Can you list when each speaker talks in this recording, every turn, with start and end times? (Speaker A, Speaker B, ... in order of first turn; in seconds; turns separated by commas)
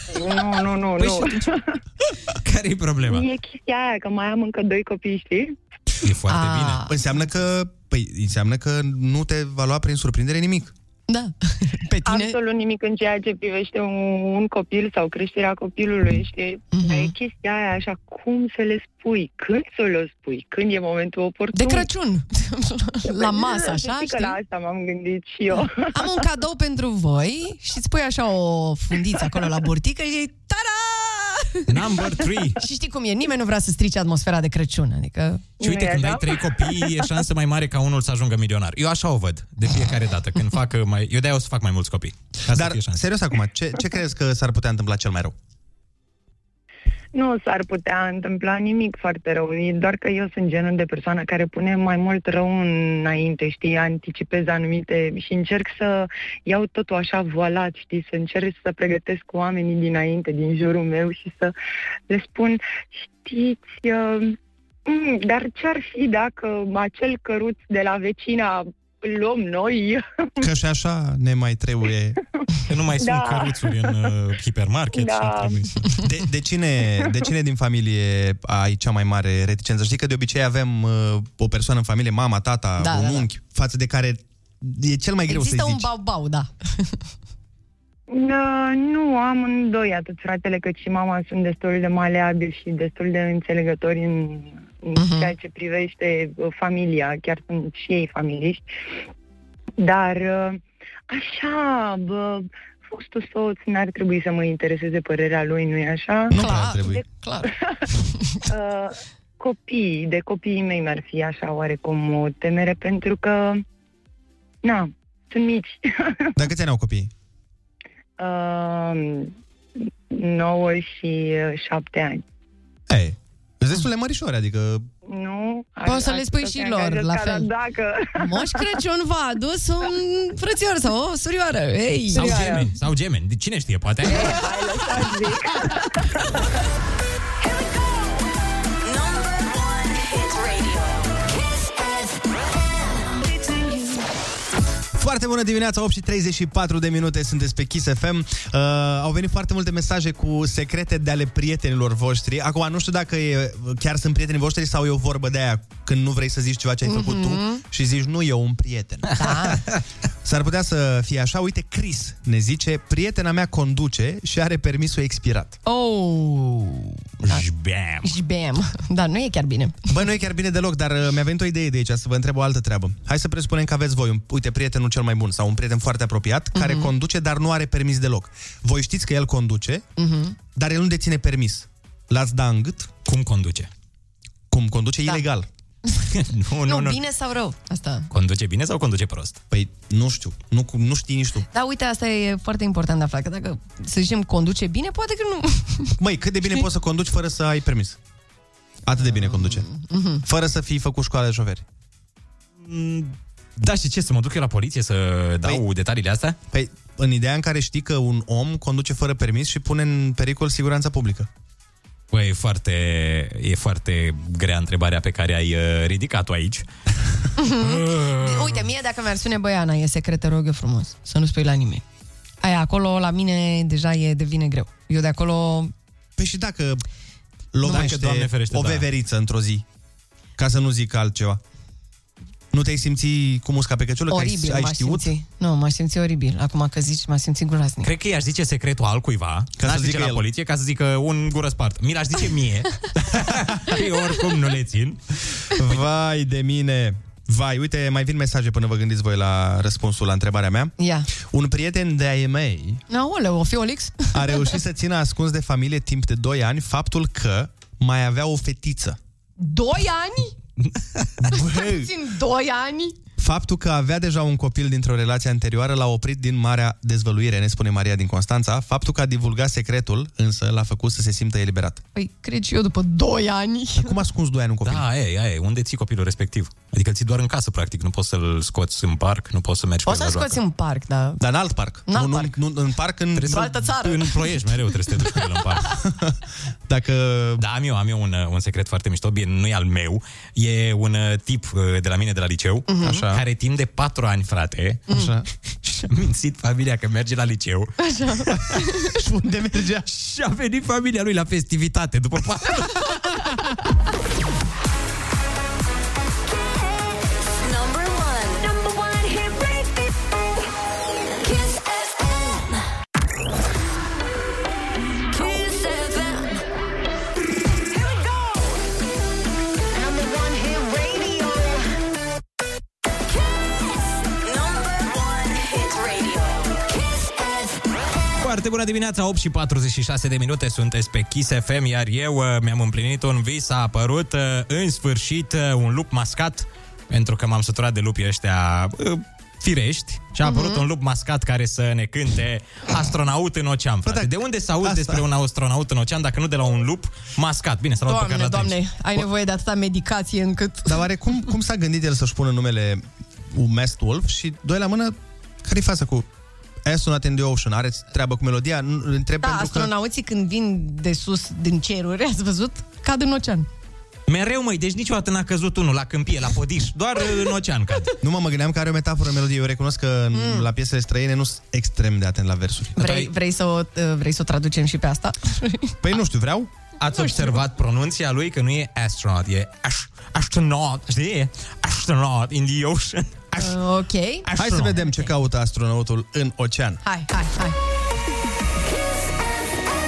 Speaker A: 0.1-1.6, Speaker B: 1.0-1.5, Speaker B: 2.4-3.3, Speaker A: 3.0-5.5, Speaker B: 6.0-6.8, Speaker C: 6.3-6.9, Speaker D: 6.9-10.7, Speaker C: 11.1-12.4, Speaker A: 12.1-21.9, Speaker C: 16.7-17.1, Speaker C: 21.5-24.4, Speaker A: 23.1-26.1, Speaker C: 25.9-31.7, Speaker B: 31.7-32.6, Speaker C: 32.6-35.5, Speaker A: 35.6-37.1, Speaker B: 35.6-43.0, Speaker D: 42.5-45.4, Speaker A: 47.1-61.5, Speaker A: 62.1-70.4, Speaker D: 70.4-72.2, Speaker B: 72.7-76.0, Speaker A: 73.0-74.1, Speaker A: 74.9-75.7, Speaker D: 76.0-85.9, Speaker C: 82.8-83.3, Speaker C: 85.3-87.0, Speaker A: 88.1-98.7, Speaker C: 95.0-95.3, Speaker A: 99.8-106.3, Speaker D: 106.3-107.0, Speaker C: 106.3-107.5, Speaker A: 108.5-113.6, Speaker A: 114.6-116.4, Speaker D: 116.4-117.1, Speaker A: 118.2-119.4, Speaker A: 120.1-122.2, Speaker D: 122.9-124.9, Speaker A: 125.1-128.7, Speaker C: 125.9-127.5, Speaker C: 128.2-132.6, Speaker A: 132.1-132.7, Speaker B: 132.2-134.5, Speaker A: 134.1-136.0, Speaker E: 137.4-138.2, Speaker E: 138.8-144.0, Speaker D: 144.9-159.1, Speaker C: 156.8-157.6, Speaker C: 159.1-159.7, Speaker D: 160.2-165.6, Speaker C: 165.7-167.4, Speaker B: 167.2-168.2, Speaker C: 168.0-169.9, Speaker D: 169.9-179.8, Speaker C: 176.6-176.9, Speaker C: 180.0-180.4, Speaker D: 180.6-182.9, Speaker B: 183.1-183.7, Speaker D: 184.5-185.5, Speaker B: 186.1-187.0, Speaker C: 186.7-188.1, Speaker B: 188.1-189.4, Speaker D: 189.5-191.5, Speaker C: 191.5-195.9, Speaker D: 196.0-198.0, Speaker D: 198.8-199.7, Speaker C: 199.0-200.2, Speaker D: 200.2-201.7, Speaker B: 202.6-206.4, Speaker D: 206.5-211.3, Speaker B: 212.1-216.7, Speaker C: 217.4-221.8, Speaker B: 217.7-218.6, Speaker C: 222.4-225.7, Speaker D: 226.2-226.8, Speaker D: 227.5-229.6, Speaker B: 227.7-228.9, Speaker D: 230.4-231.4, Speaker D: 232.5-235.1, Speaker C: 234.1-237.9, Speaker B: 237.8-245.0, Speaker D: 239.6-240.2, Speaker D: 245.5-252.8, Speaker C: 250.8-251.1, Speaker C: 252.9-254.5, Speaker D: 254.1-259.0, Speaker C: 259.4-260.4, Speaker D: 261.2-261.9, Speaker C: 261.3-263.0, Speaker D: 263.2-271.8, Speaker C: 271.9-274.0, Speaker D: 273.8-274.9, Speaker B: 274.6-280.4, Speaker C: 279.9-281.2, Speaker D: 281.2-283.6, Speaker C: 281.9-282.3, Speaker B: 283.1-285.8, Speaker C: 283.2-284.2, Speaker D: 285.9-286.2, Speaker D: 286.7-287.4, Speaker B: 287.4-294.9, Speaker C: 292.7-293.1, Speaker D: 292.8-293.2, Speaker D: 294.9-295.3, Speaker B: 295.6-298.6, Speaker C: 297.8-298.9, Speaker D: 298.9-299.9, Speaker B: 299.9-303.4, Speaker E: 306.3-310.0, Speaker E: 311.2-312.6, Speaker E: 315.1-316.4, Speaker E: 317.8-318.4, Speaker E: 320.0-321.5, Speaker E: 323.1-327.6, Speaker B: 328.2-348.6, Speaker C: 340.2-340.6, Speaker D: 343.9-344.1, Speaker D: 344.6-345.0, Speaker C: 347.9-350.7, Speaker D: 350.7-356.1, Speaker D: 356.6-359.7, Speaker C: 359.2-363.5, Speaker B: 364.1-367.9, Speaker D: 368.0-372.9, Speaker C: 370.1-370.5, Speaker C: 372.8-375.8, Speaker B: 372.8-373.1, Speaker D: 375.8-376.5, Speaker B: 376.8-383.6, Speaker C: 376.9-377.4, Speaker C: 383.4-384.3, Speaker B: 384.2-384.8, Speaker D: 384.4-386.8, Speaker C: 386.8-387.6